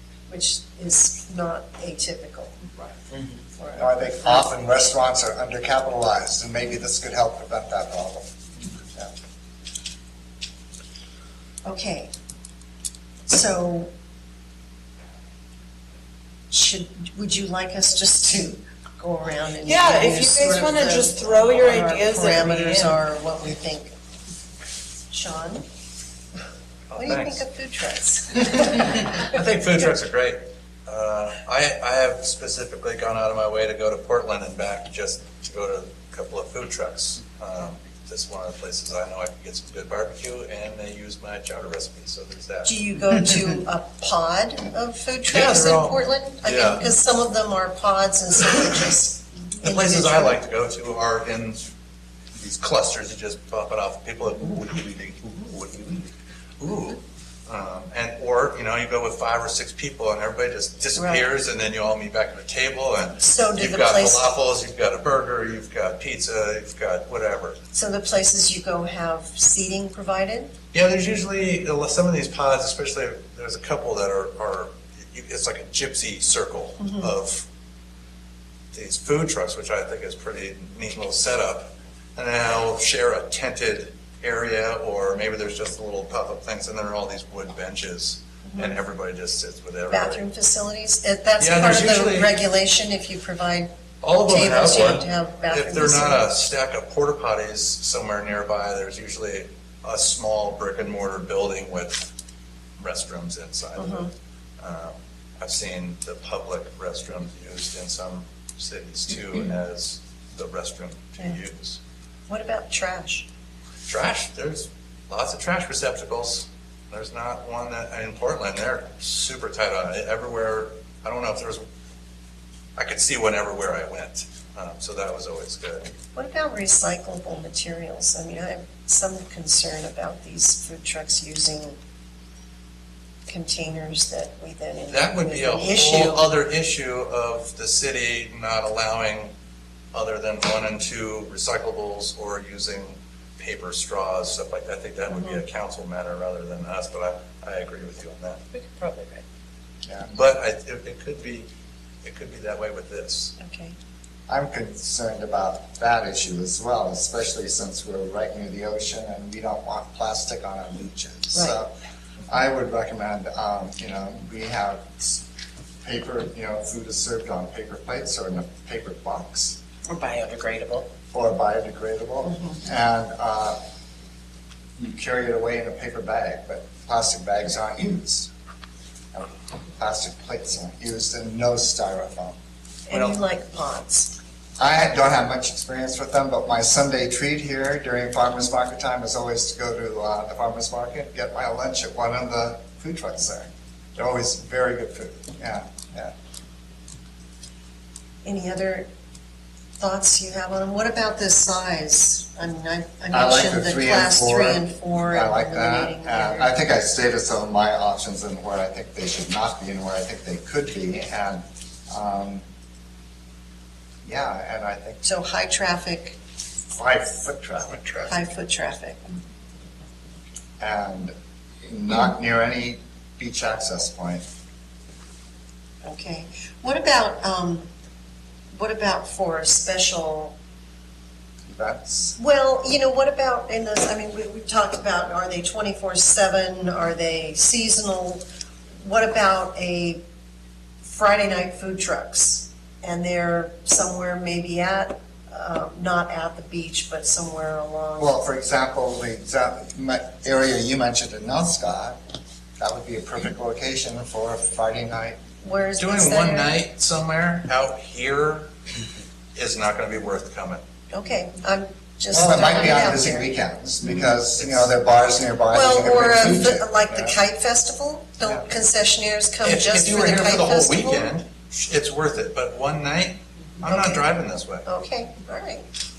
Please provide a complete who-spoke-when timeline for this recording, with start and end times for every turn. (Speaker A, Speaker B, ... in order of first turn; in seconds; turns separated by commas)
Speaker A: 0.3-2.6, Speaker A: 3.6-3.9, Speaker B: 3.8-9.1, Speaker A: 11.7-12.1, Speaker A: 13.3-13.9, Speaker A: 16.5-23.9, Speaker C: 19.6-22.9, Speaker A: 25.1-25.6, Speaker D: 26.9-27.4, Speaker A: 26.9-29.2, Speaker D: 29.1-42.7, Speaker A: 42.6-50.4, Speaker D: 45.3-46.9, Speaker D: 49.6-51.7, Speaker D: 52.4-67.6, Speaker A: 61.0-61.3, Speaker A: 63.2-64.3, Speaker A: 67.7-70.5, Speaker D: 70.7-77.5, Speaker D: 78.7-90.2, Speaker A: 88.5-88.8, Speaker A: 89.9-96.3, Speaker D: 91.4-92.4, Speaker D: 94.0-102.1, Speaker D: 102.8-104.1, Speaker A: 103.8-104.1, Speaker D: 104.6-111.8, Speaker A: 112.3-113.3, Speaker D: 113.9-121.6, Speaker D: 122.8-125.9, Speaker A: 126.1-131.8, Speaker A: 133.3-136.3, Speaker D: 134.9-139.3, Speaker D: 139.9-148.4, Speaker A: 145.1-145.4, Speaker C: 148.5-149.2, Speaker D: 150.1-151.5, Speaker D: 152.0-153.3, Speaker A: 153.4-153.8, Speaker B: 154.3-161.7, Speaker B: 162.3-165.2, Speaker B: 165.8-169.6, Speaker C: 169.9-170.8, Speaker B: 171.1-173.6, Speaker A: 172.3-172.6, Speaker B: 174.8-178.3, Speaker B: 179.1-182.4, Speaker A: 182.9-184.2, Speaker B: 184.6-196.1, Speaker A: 198.2-198.9, Speaker A: 199.8-206.5, Speaker B: 203.1-212.4, Speaker B: 214.0-215.0, Speaker A: 215.0-216.2, Speaker B: 216.8-218.2, Speaker A: 218.1-219.0, Speaker B: 220.6-221.2, Speaker B: 221.7-224.2, Speaker A: 225.8-227.7, Speaker A: 228.5-230.3, Speaker B: 231.5-232.2, Speaker A: 232.2-238.2, Speaker A: 238.8-240.0, Speaker A: 240.8-248.2, Speaker B: 248.0-252.0, Speaker B: 252.6-255.2, Speaker A: 255.4-256.6, Speaker D: 255.8-258.5, Speaker D: 259.4-260.6, Speaker A: 260.9-263.3, Speaker B: 262.1-267.2, Speaker D: 264.4-264.7, Speaker A: 265.5-271.1, Speaker D: 269.4-274.7, Speaker A: 273.7-274.1, Speaker A: 274.6-275.7